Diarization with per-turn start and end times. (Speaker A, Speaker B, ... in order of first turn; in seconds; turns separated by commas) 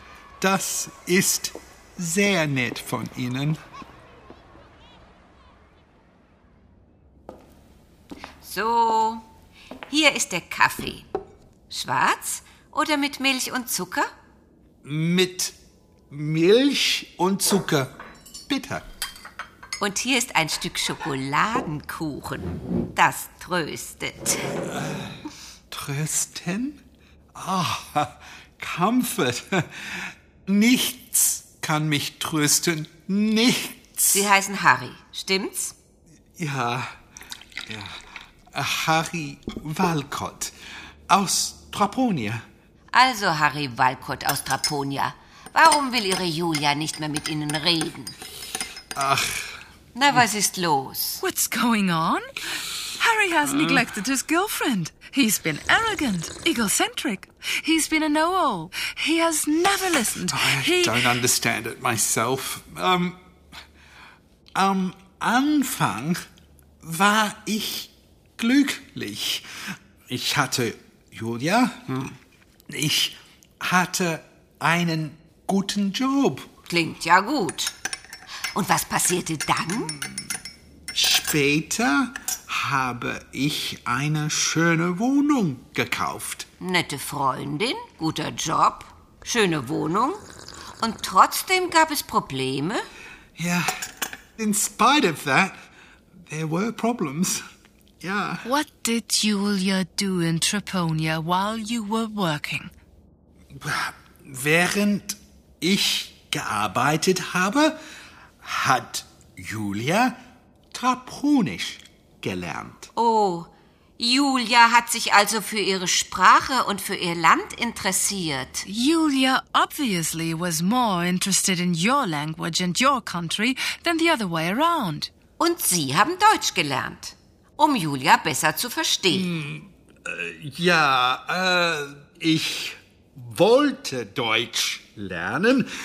Speaker A: 0.4-3.6, Speaker B: 8.4-9.2, Speaker B: 9.9-11.1, Speaker B: 11.7-14.1, Speaker A: 14.8-15.5, Speaker A: 16.1-17.9, Speaker A: 18.5-18.9, Speaker B: 19.8-24.6, Speaker A: 24.7-25.1, Speaker A: 25.7-26.8, Speaker A: 27.3-34.3, Speaker B: 34.1-35.7, Speaker A: 36.4-36.9, Speaker A: 37.7-37.9, Speaker A: 38.5-40.5, Speaker A: 41.1-42.4, Speaker B: 42.9-48.1, Speaker A: 49.0-49.5, Speaker B: 49.9-51.2, Speaker C: 51.2-52.4, Speaker C: 52.9-61.1, Speaker A: 53.5-53.8, Speaker A: 60.2-63.2, Speaker A: 64.5-66.2, Speaker A: 66.8-69.5, Speaker A: 70.1-72.0, Speaker A: 72.7-76.5, Speaker B: 76.7-77.7, Speaker B: 78.5-80.0, Speaker A: 80.9-86.5, Speaker B: 86.6-90.2, Speaker B: 90.8-92.8, Speaker A: 93.4-93.7, Speaker A: 94.4-95.6, Speaker A: 96.3-97.4, Speaker A: 98.0-98.5, Speaker C: 98.4-102.7, Speaker A: 103.5-107.8, Speaker A: 108.4-110.2, Speaker A: 110.7-112.9, Speaker B: 112.9-118.7, Speaker C: 118.6-125.1, Speaker B: 125.4-129.3, Speaker A: 129.1-135.7